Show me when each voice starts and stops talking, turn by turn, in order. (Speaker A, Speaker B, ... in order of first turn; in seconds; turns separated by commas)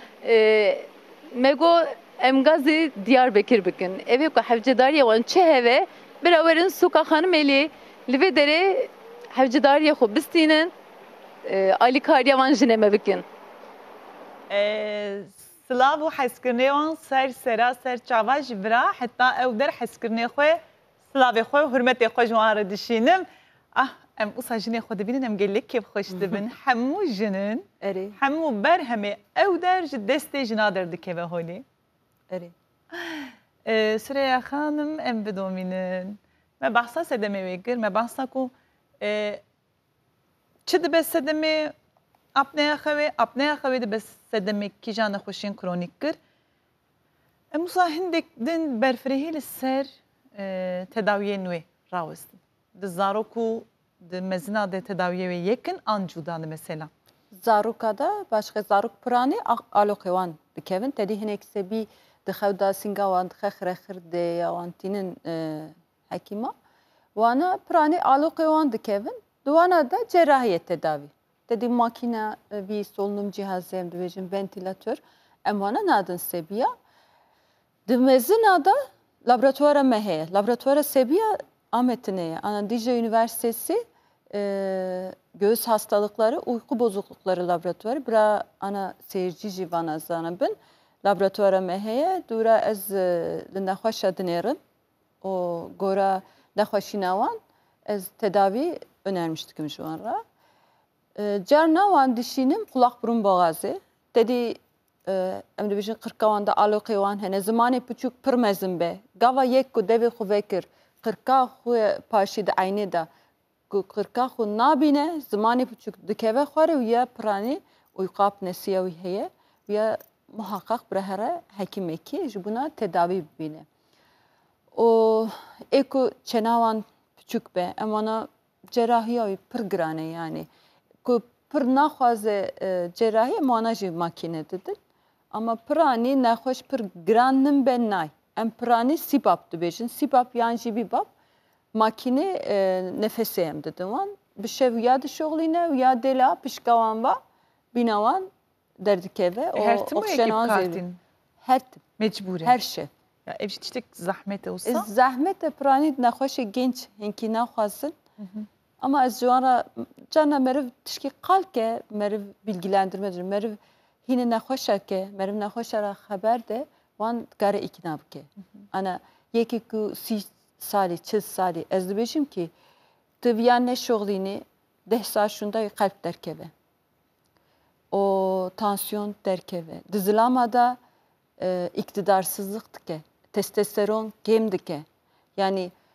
Speaker A: 0.2-10.7, Speaker A: 11.4-13.2, Speaker B: 14.5-20.6, Speaker B: 21.1-27.6, Speaker C: 27.8-28.2, Speaker B: 28.2-31.6, Speaker B: 32.9-39.4, Speaker B: 40.6-41.7, Speaker B: 42.4-46.2, Speaker B: 47.5-56.9, Speaker C: 57.3-66.5, Speaker C: 67.2-76.7, Speaker C: 77.9-83.8, Speaker C: 84.3-94.6, Speaker C: 95.2-100.2, Speaker C: 101.2-113.1, Speaker C: 113.7-123.7, Speaker C: 124.7-130.5, Speaker C: 131.0-134.8, Speaker C: 135.3-141.1, Speaker C: 141.7-147.2, Speaker C: 147.7-150.8, Speaker B: 149.6-151.0, Speaker C: 151.4-151.8, Speaker B: 152.0-152.6, Speaker C: 152.4-152.9, Speaker B: 153.2-154.9, Speaker C: 154.6-157.9, Speaker B: 158.2-158.4, Speaker C: 158.8-172.5, Speaker C: 173.2-176.5, Speaker C: 177.9-180.8, Speaker C: 181.4-184.8, Speaker C: 185.4-185.7